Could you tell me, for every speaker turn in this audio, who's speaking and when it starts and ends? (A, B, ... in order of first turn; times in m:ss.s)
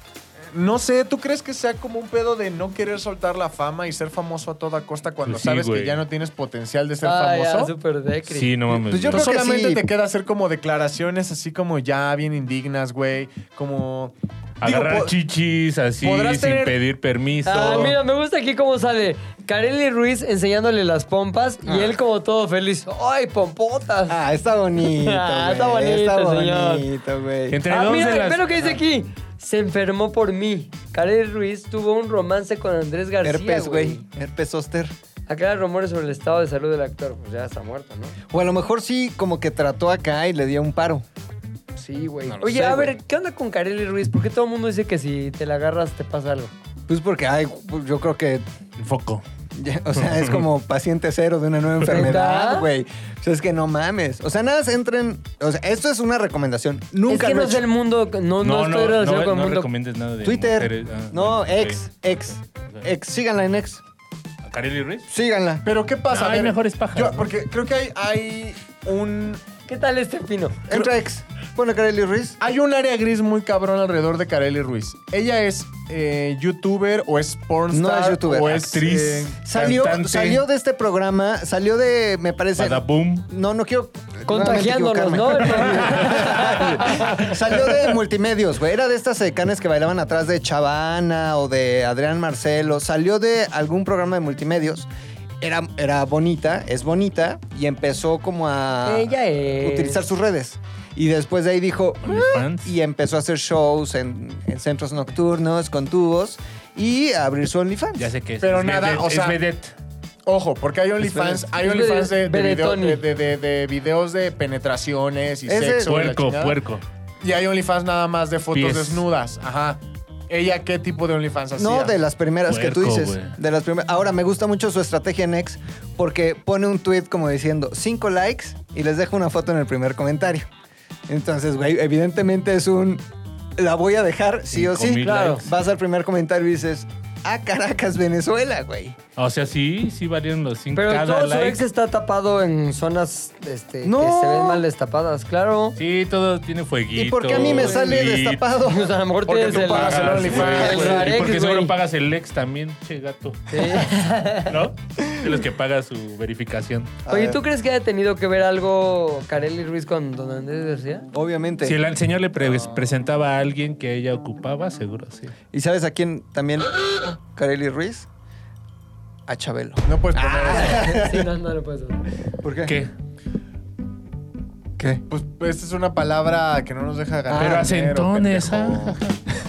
0:00.5-0:07.7 A
0:05.2-0:06.0 B
0:07.0-0:08.5 C
0:08.2-0:09.3 B
0:08.7-0:09.8 D
0:09.0-0:15.1 A
0:14.6-0:18.0 B
0:16.0-0:16.7 A
0:17.4-0:24.2 C
0:21.6-0:22.0 D
0:24.1-0:27.6 D
0:24.8-0:26.8 C
0:27.5-0:28.8 B
0:27.7-0:34.0 C
0:33.2-0:34.9 D
0:35.3-0:38.1 C
0:38.3-0:41.0 D
0:41.8-0:46.5 C
0:42.3-0:42.9 D
0:46.9-0:48.4 D
0:48.8-0:49.2 B
0:49.5-0:57.6 D
0:50.0-0:50.4 B
0:51.9-0:52.7 C
0:57.1-0:59.7 C
0:58.4-1:01.8 B
1:00.2-1:03.8 D
1:04.4-1:05.1 B
1:05.1-1:05.6 D
1:05.6-1:09.4 A
1:06.1-1:07.3 B
1:09.7-1:10.6 C
1:10.7-1:12.4 D
1:12.4-1:19.3 A
1:17.7-1:18.6 D
1:18.4-1:20.4 B
1:19.4-1:34.9 D
1:22.6-1:23.2 B
1:24.3-1:27.3 C
1:35.4-1:48.1 D
1:38.8-1:40.1 C
1:42.0-1:42.7 B
1:48.0-1:49.7 B
1:48.4-1:49.4 A
1:50.2-1:56.6 A
1:51.0-1:51.4 D
1:51.5-1:53.0 C
1:55.4-1:55.9 D
1:55.8-1:56.8 B
1:57.2-2:01.9 A
1:58.5-1:59.0 B
2:01.6-2:10.5 D
2:02.5-2:03.3 B
2:11.1-2:13.0 D
2:13.6-2:19.0 D
2:14.5-2:15.5 B
2:15.0-2:15.4 C
2:19.2-2:21.6 B
2:20.7-2:25.8 C
2:23.8-2:24.6 D
2:25.8-2:28.4 B
2:26.9-2:28.9 D
2:27.4-2:27.9 C
2:28.6-2:31.7 C
2:29.2-2:31.1 A
2:29.5-2:33.9 B
2:33.5-2:34.5 C
2:34.4-2:37.0 B
2:37.0-2:37.4 D
2:37.1-2:41.0 C
2:41.1-2:41.8 D
2:41.6-2:45.3 B
2:45.5-2:48.1 D
2:49.3-2:51.3 D
2:49.8-2:50.9 A
2:50.5-2:52.0 C
2:52.4-2:52.8 D
2:54.8-2:55.0 D
2:55.1-2:59.0 A
2:57.3-2:57.7 D
2:57.3-2:59.2 B